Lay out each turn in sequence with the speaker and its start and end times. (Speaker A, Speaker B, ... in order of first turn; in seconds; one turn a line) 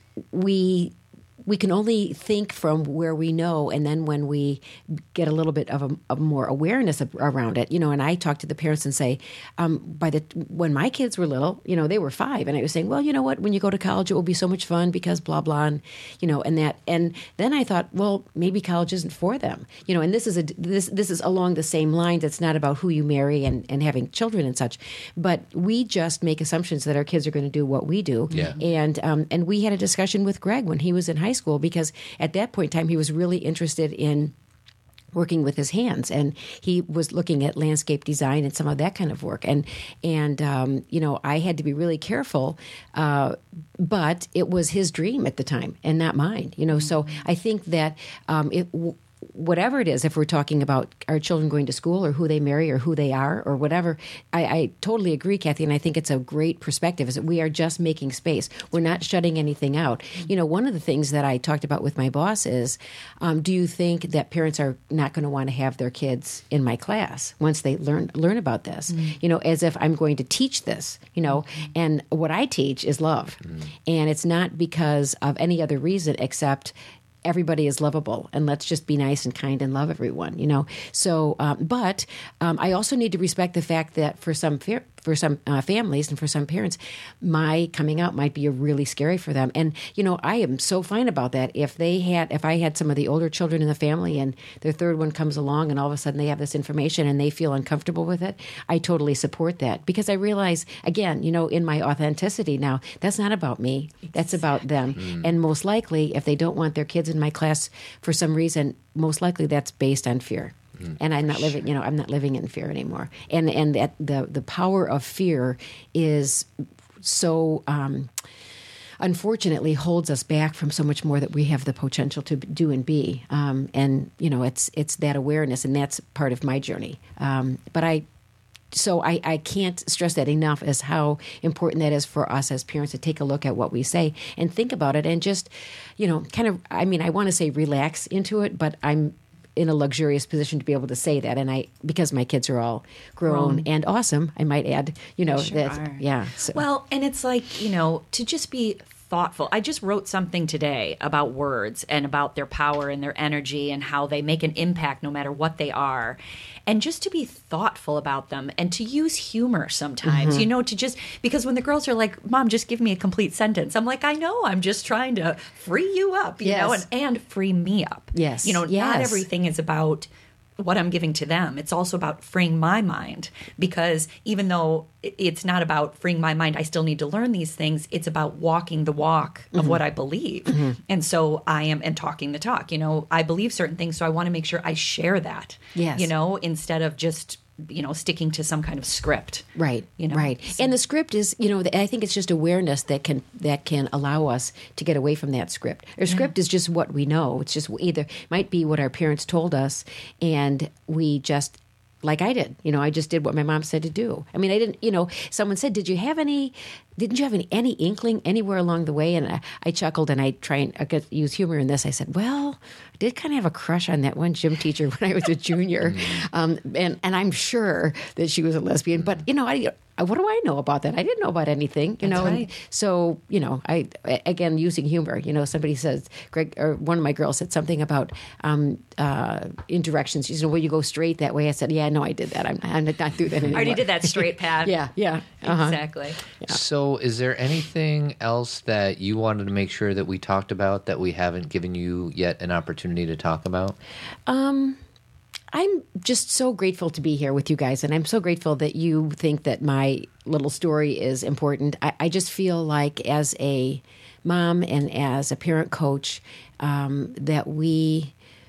Speaker A: 0.3-34.3
Speaker B: 28.3-28.6
Speaker C: 28.3-28.6
Speaker A: 35.1-76.7
Speaker C: 68.9-69.2
Speaker A: 77.2-116.5
Speaker A: 117.0-118.2
Speaker A: 119.0-128.1
Speaker A: 128.7-146.6
Speaker C: 143.3-143.7
Speaker C: 145.2-189.5
Speaker A: 160.0-160.5
Speaker A: 166.4-166.8
Speaker A: 168.1-169.3
Speaker A: 179.6-179.8
Speaker A: 180.5-180.8
Speaker A: 185.8-186.1
Speaker A: 189.6-236.6
Speaker C: 190.0-190.7
Speaker C: 222.0-222.5
Speaker C: 233.5-234.8
Speaker C: 235.4-236.2
Speaker B: 236.5-243.8
Speaker A: 244.3-244.8
Speaker A: 245.5-258.1